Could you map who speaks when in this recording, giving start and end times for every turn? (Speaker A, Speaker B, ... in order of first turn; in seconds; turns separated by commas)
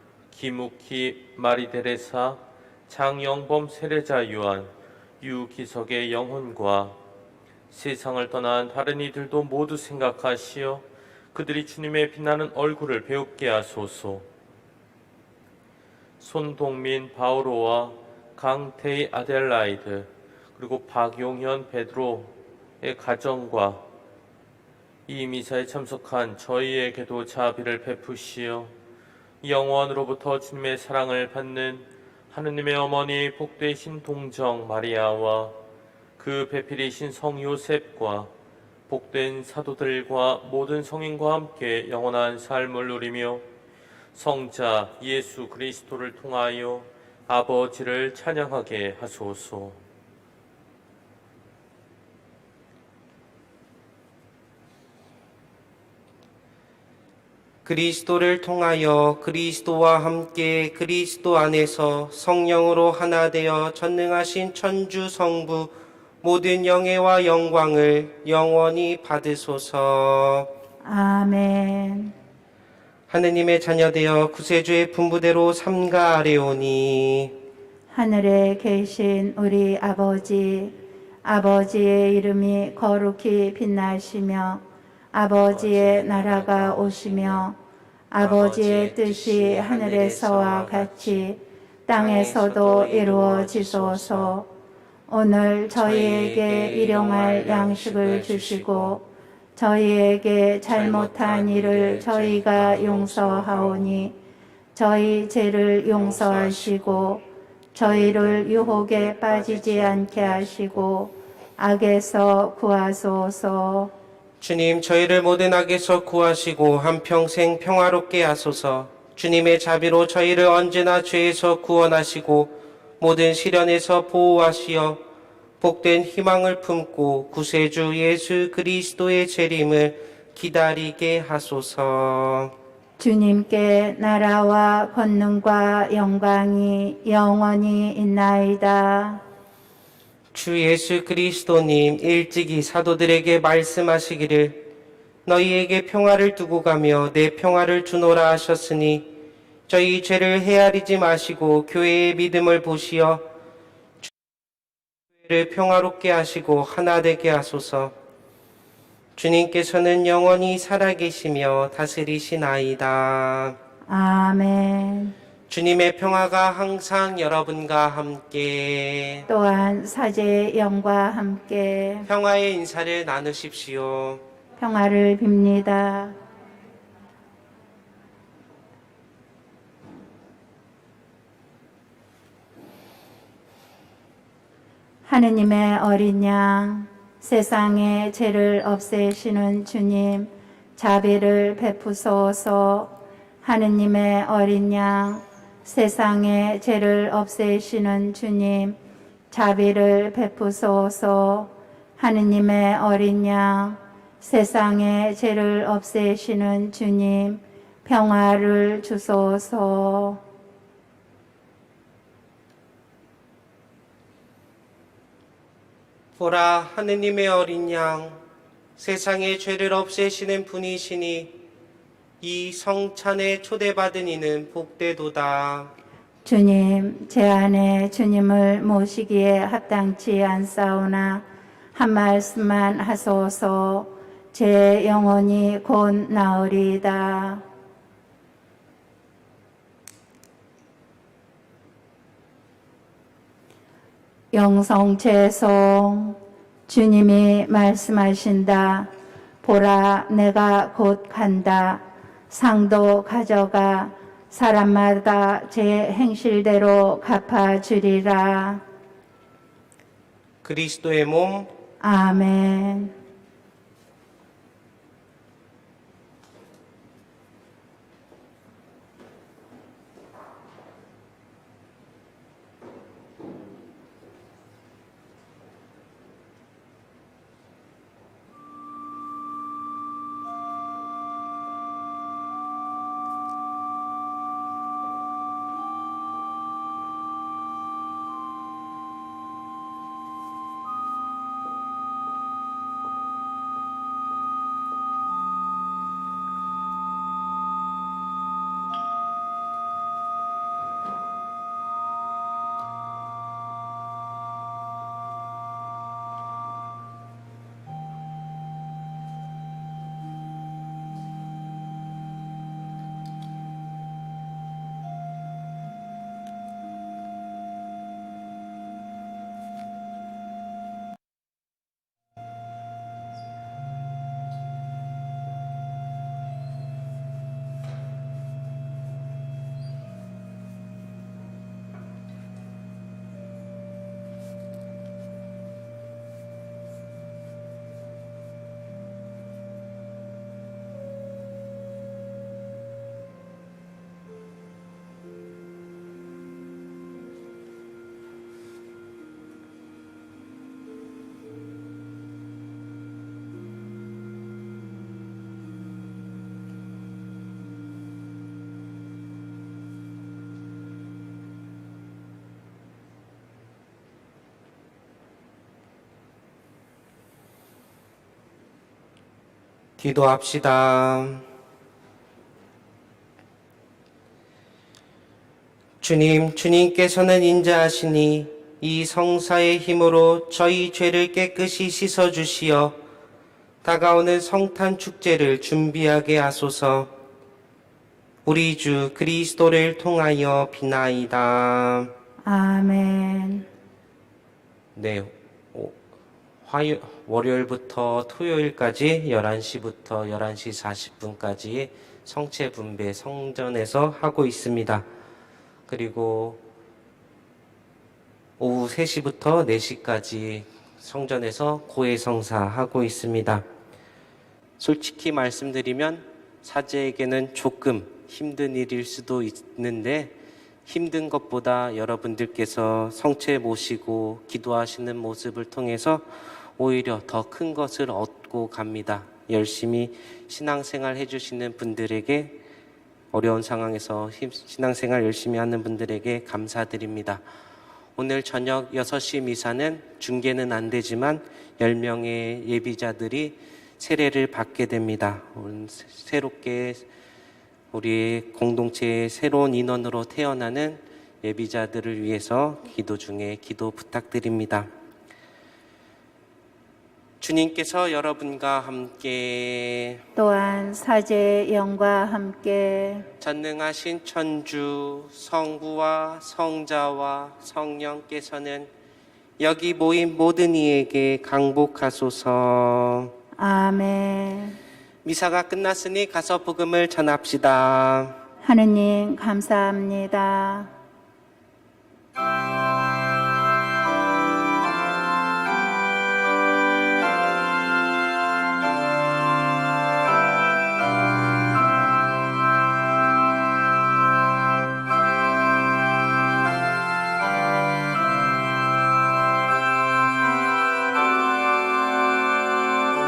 Speaker A: 0.3-4.7, Speaker A: 5.2-6.9, Speaker A: 7.7-10.8, Speaker A: 11.3-14.2, Speaker A: 16.2-23.8, Speaker A: 25.1-28.7, Speaker A: 29.4-35.5, Speaker A: 36.2-38.3, Speaker A: 38.9-43.4, Speaker A: 44.1-49.8, Speaker B: 57.6-70.5, Speaker C: 70.8-72.1, Speaker B: 73.1-77.3, Speaker C: 77.9-84.6, Speaker C: 85.1-87.5, Speaker B: 85.5-87.5, Speaker C: 88.1-94.5, Speaker B: 88.2-91.2, Speaker B: 91.9-94.3, Speaker C: 95.1-104.1, Speaker B: 95.7-99.0, Speaker B: 100.7-104.1, Speaker C: 104.7-107.2, Speaker B: 105.9-107.2, Speaker C: 107.7-113.9, Speaker B: 107.8-110.8, Speaker B: 114.4-125.0, Speaker B: 125.6-132.5, Speaker C: 133.0-139.2, Speaker B: 140.3-144.6, Speaker B: 145.2-149.1, Speaker B: 149.7-153.2, Speaker B: 155.2-157.9, Speaker B: 159.2-163.6, Speaker C: 163.9-165.1, Speaker B: 165.5-169.3, Speaker C: 169.3-172.1, Speaker B: 172.1-174.2, Speaker C: 174.6-176.2, Speaker C: 185.1-198.8, Speaker C: 199.3-210.2, Speaker B: 216.2-218.2, Speaker B: 218.8-221.3, Speaker B: 222.2-225.7, Speaker C: 226.2-237.4, Speaker C: 244.3-248.9, Speaker C: 249.4-258.6, Speaker B: 260.4-261.5, Speaker C: 261.8-262.9, Speaker B: 369.8-371.2, Speaker B: 375.8-382.8, Speaker B: 383.6-386.9, Speaker B: 388.2-391.9, Speaker C: 392.2-393.4, Speaker B: 394.7-395.8, Speaker B: 396.4-404.9, Speaker B: 405.7-406.4, Speaker B: 408.4-413.4, Speaker B: 414.6-420.1, Speaker B: 420.6-426.1, Speaker B: 426.6-432.4, Speaker B: 433.1-437.2, Speaker B: 437.9-446.8, Speaker B: 447.7-454.7, Speaker B: 457.2-460.0, Speaker C: 460.1-463.1, Speaker B: 463.2-468.7, Speaker B: 469.4-473.1, Speaker C: 473.4-474.6, Speaker B: 475.0-478.2, Speaker C: 478.4-480.7